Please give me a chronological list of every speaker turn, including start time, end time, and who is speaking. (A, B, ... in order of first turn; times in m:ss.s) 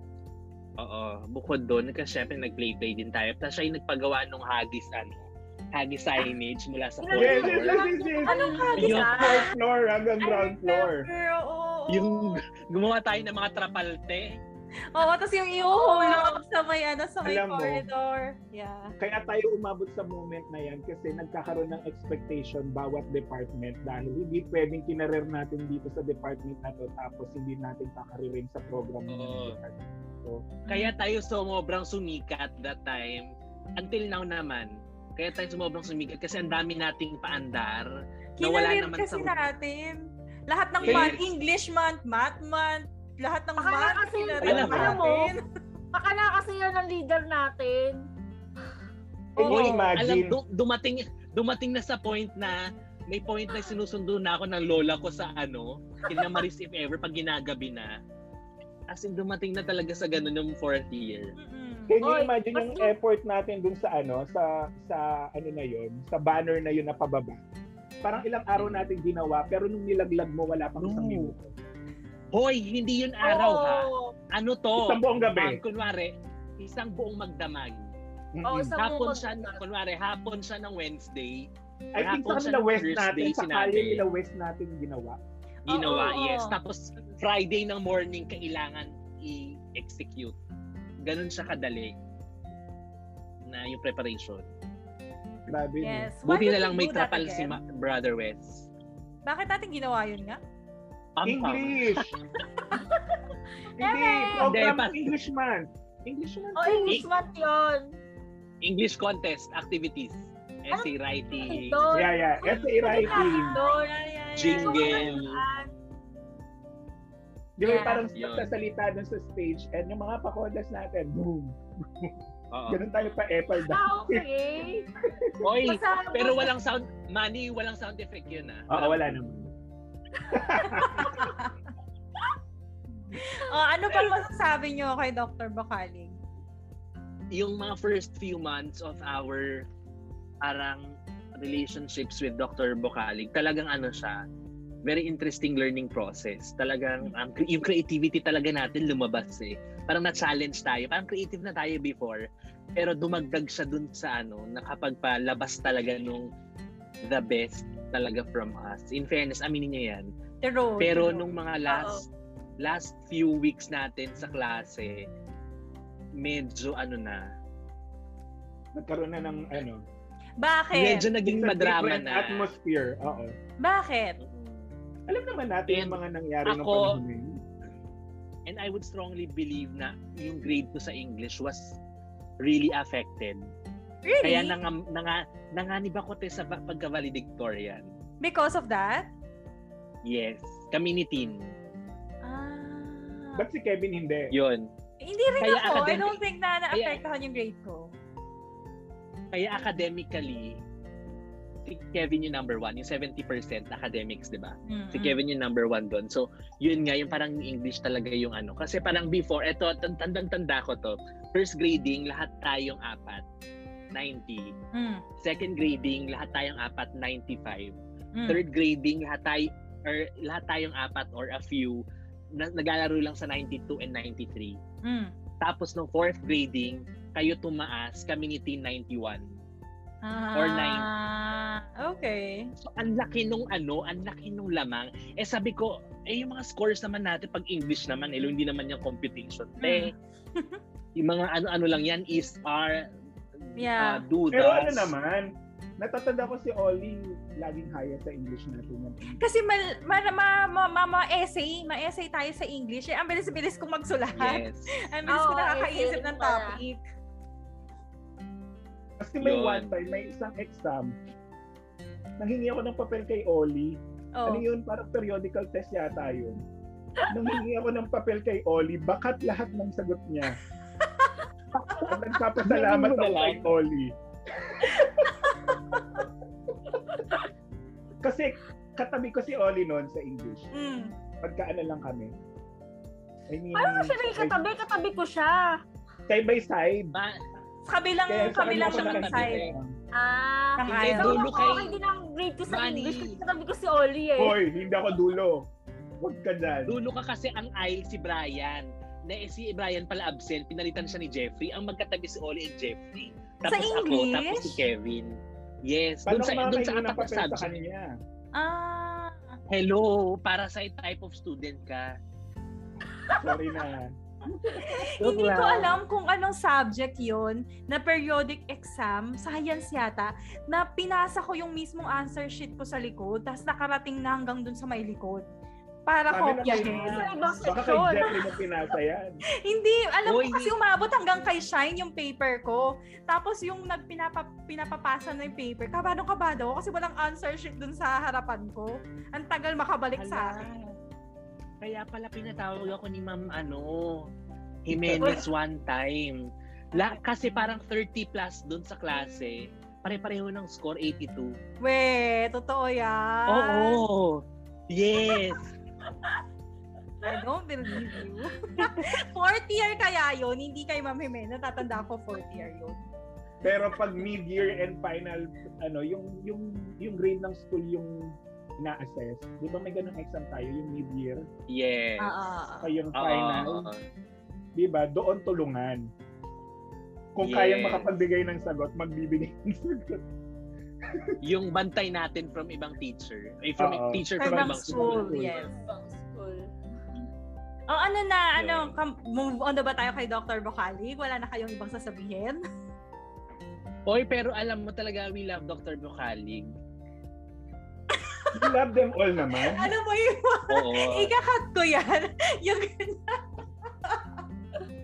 0:00.8-0:07.9 A
0:07.0-0:09.5 B
0:07.1-0:11.0 C
0:08.2-0:09.4 D
0:08.8-0:09.1 A
0:10.2-0:12.4 D
0:11.9-0:14.4 A
0:14.9-0:18.9 D
0:15.6-0:16.4 B
0:17.2-0:17.8 C
0:19.0-0:30.5 C
0:29.1-0:29.6 A
0:30.7-0:30.9 D
0:30.7-0:37.9 A
0:38.4-0:45.4 D
0:38.4-0:39.3 A
0:40.8-0:41.2 A
0:40.8-0:41.2 C
0:43.6-0:45.3 B
0:44.4-0:45.0 C
0:44.4-0:45.0 A
0:45.9-0:48.0 B
0:49.4-0:50.0 D
0:49.4-0:50.4 C
0:49.4-0:58.0 A
0:53.5-0:53.7 B
0:58.9-1:01.3 A
1:01.4-1:02.0 D
1:01.9-1:07.4 C
1:02.0-1:02.9 B
1:08.0-1:11.5 C
1:08.6-1:08.9 A
1:10.8-1:11.3 A
1:12.3-1:17.9 A
1:13.2-1:14.1 B
1:14.8-1:15.6 C
1:18.3-1:18.7 C
1:18.4-1:19.6 B
1:18.8-1:24.0 A
1:21.9-1:25.2 C
1:25.6-1:26.6 D
1:25.7-1:30.3 A
1:31.0-1:31.9 A
1:33.4-1:34.4 A
1:35.5-1:36.1 C
1:35.8-1:37.6 D
1:36.2-1:38.7 A
1:39.2-1:40.4 D
1:41.2-1:42.1 A
1:41.2-1:42.2 C
1:43.8-1:47.0 C
1:43.8-1:44.5 B
1:44.4-1:45.0 A
1:46.6-1:46.9 D
1:46.6-1:47.9 B
1:48.6-1:51.9 A
1:50.7-1:53.9 B
1:51.9-1:53.6 C
1:52.4-1:55.2 D
1:54.4-1:55.4 A
1:54.4-1:55.7 B
1:57.6-2:02.1 C
1:57.6-1:58.0 D
1:58.2-1:58.4 A
2:02.5-2:02.8 A
2:02.7-2:04.2 C
2:03.6-2:04.8 B
2:05.0-2:05.4 C
2:05.4-2:09.2 A
2:05.6-2:06.5 B
2:08.7-2:09.5 C
2:10.3-2:11.3 C
2:10.6-2:11.6 D
2:13.2-2:16.2 D
2:17.3-2:19.6 A
2:20.4-2:20.8 A
2:21.4-2:24.2 A
2:24.8-2:32.2 A
2:32.8-2:36.3 A
2:37.0-2:40.1 A
2:40.4-2:41.3 D
2:40.8-2:42.1 A
2:41.7-2:42.0 B
2:42.6-2:45.0 A
2:46.2-2:47.2 A
2:48.7-2:49.8 C
2:50.4-2:51.1 D
2:50.7-2:52.5 A
2:51.2-2:53.3 C
2:53.6-2:54.2 D
2:54.2-2:54.7 A
2:55.1-2:57.4 C
2:55.7-2:57.0 A
2:58.5-3:01.8 A
3:02.4-3:03.4 A
3:04.0-3:04.6 D
3:04.2-3:07.9 A
3:08.2-3:09.1 D
3:10.0-3:11.5 A
3:12.2-3:13.4 D
3:13.4-3:14.3 C
3:14.3-3:14.7 A
3:15.0-3:17.9 D
3:15.4-3:16.2 A
3:16.7-3:17.0 A
3:19.3-3:20.6 A
3:21.6-3:33.2 A
3:24.7-3:25.2 D
3:33.9-3:34.5 A
3:34.7-3:35.0 D
3:35.2-3:37.8 A
3:38.2-3:38.4 D
3:38.3-3:41.8 A
3:42.3-3:44.6 A
3:44.8-3:45.1 D
3:45.4-3:49.2 A
3:50.0-3:52.5 D
3:50.3-3:50.9 A
3:52.6-3:59.9 A
3:59.6-4:00.6 D
4:01.0-4:02.8 A
4:03.5-4:04.9 A
4:03.6-4:04.0 D
4:04.3-4:05.3 C
4:05.8-4:09.2 C
4:09.2-4:16.8 D
4:14.2-4:14.7 A
4:15.1-4:16.6 B
4:19.0-4:20.9 C
4:19.2-4:19.8 A
4:22.2-4:26.4 C
4:24.2-4:24.4 D
4:27.1-4:30.4 C
4:30.8-4:31.2 D
4:31.8-4:33.9 C
4:32.4-4:33.5 A
4:34.5-4:35.2 C
4:35.2-4:36.0 D
4:38.0-4:40.5 C
4:40.5-4:40.9 D
4:41.2-4:42.1 C
4:43.3-4:44.4 C
4:43.5-4:45.6 B
4:46.1-4:46.9 C
4:47.7-4:49.4 D
4:48.1-4:49.7 C
4:48.3-4:49.5 A
4:49.9-4:54.4 B
4:50.6-4:51.2 D
4:50.7-4:51.8 A
4:52.5-4:53.2 A
4:54.2-4:55.4 C
4:56.0-4:56.8 C
4:56.7-5:07.5 A
5:03.4-5:04.6 D
5:06.0-5:07.9 C
5:08.3-5:09.4 D
5:09.5-5:11.9 A
5:13.1-5:14.9 C
5:14.6-5:25.2 D
5:15.0-5:15.8 A
5:25.9-5:27.1 D
5:26.1-5:29.2 C
5:26.5-5:28.3 B
5:29.4-5:40.5 D
5:30.0-5:30.5 A
5:40.0-5:40.6 A
5:41.6-5:44.1 A
5:44.7-5:51.3 A
5:44.7-5:45.1 C
5:45.0-5:45.2 B
5:51.6-5:53.8 D
5:53.3-5:55.5 A
5:57.0-6:02.8 D
6:03.4-6:11.2 C
6:11.5-6:12.1 A
6:12.0-6:12.7 D
6:12.6-6:13.7 C
6:12.9-6:13.8 A
6:14.6-6:15.8 C
6:17.2-6:20.0 C
6:17.2-6:17.9 A
6:20.9-6:21.2 C
6:21.2-6:25.2 A
6:23.6-6:25.3 C
6:24.2-6:25.5 D
6:25.2-6:26.4 B
6:27.7-6:32.4 D
6:28.4-6:28.8 A
6:33.9-6:36.5 A
6:37.9-6:38.3 D
6:38.3-6:39.7 C
6:39.3-6:43.2 D
6:40.5-6:41.1 A